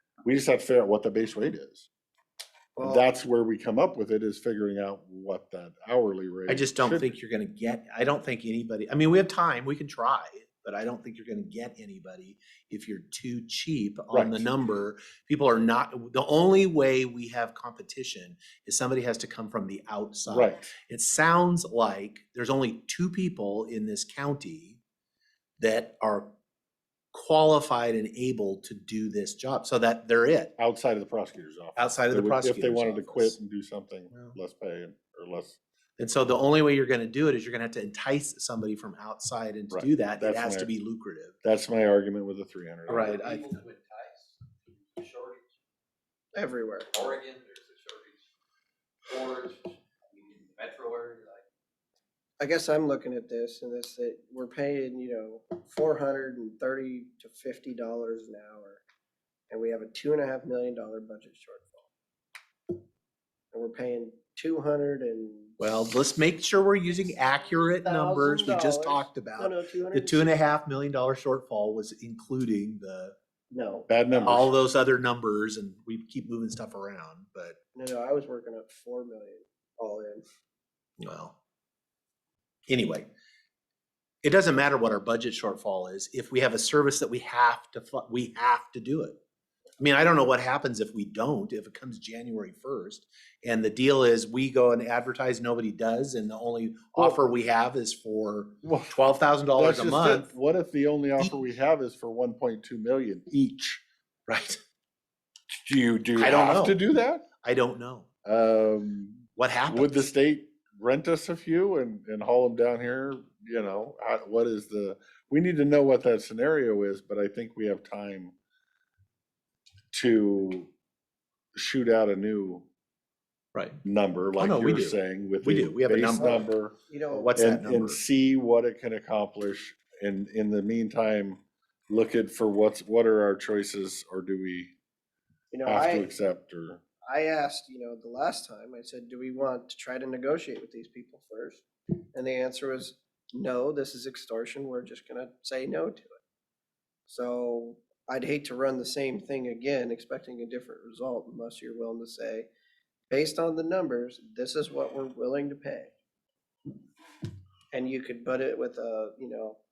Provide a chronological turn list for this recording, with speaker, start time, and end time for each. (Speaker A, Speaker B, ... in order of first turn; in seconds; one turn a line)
Speaker A: 0.2-1.9
Speaker B: 2.8-3.1
Speaker A: 2.8-7.1
Speaker C: 6.5-24.8
Speaker A: 14.1-14.5
Speaker A: 20.3-20.7
Speaker C: 25.6-26.3
Speaker C: 27.1-30.5
Speaker A: 30.6-35.6
Speaker C: 31.8-33.4
Speaker C: 36.0-41.4
Speaker A: 39.7-40.7
Speaker A: 41.4-43.2
Speaker C: 42.9-43.5
Speaker D: 42.9-45.4
Speaker B: 46.3-47.0
Speaker D: 46.9-48.1
Speaker D: 49.1-51.4
Speaker B: 52.4-58.8
Speaker B: 59.5-61.8
Speaker B: 63.5-65.6
Speaker C: 65.6-73.1
Speaker B: 67.8-70.4
Speaker B: 73.5-74.1
Speaker A: 73.9-74.5
Speaker C: 74.1-77.5
Speaker B: 77.7-80.2
Speaker C: 81.0-81.3
Speaker C: 82.7-83.1
Speaker C: 84.2-89.2
Speaker C: 89.8-100.3
Speaker A: 98.6-98.9
Speaker A: 99.5-103.8
Speaker C: 104.3-104.6
Speaker A: 105.7-107.2
Speaker C: 106.2-106.8
Speaker C: 107.4-108.1
Speaker A: 108.2-118.3
Speaker C: 109.4-110.1
Speaker A: 119.9-120.7
Speaker A: 121.5-122.7
Speaker C: 123.5-123.8
Speaker A: 123.8-126.7
Speaker C: 124.4-126.5
Speaker B: 126.2-127.3
Speaker C: 127.1-128.0
Speaker A: 127.3-134.7
Speaker B: 135.5-136.1
Speaker A: 135.7-136.8
Speaker B: 137.0-146.2
Speaker B: 147.1-152.5
Speaker B: 153.1-155.9
Speaker B: 157.7-159.6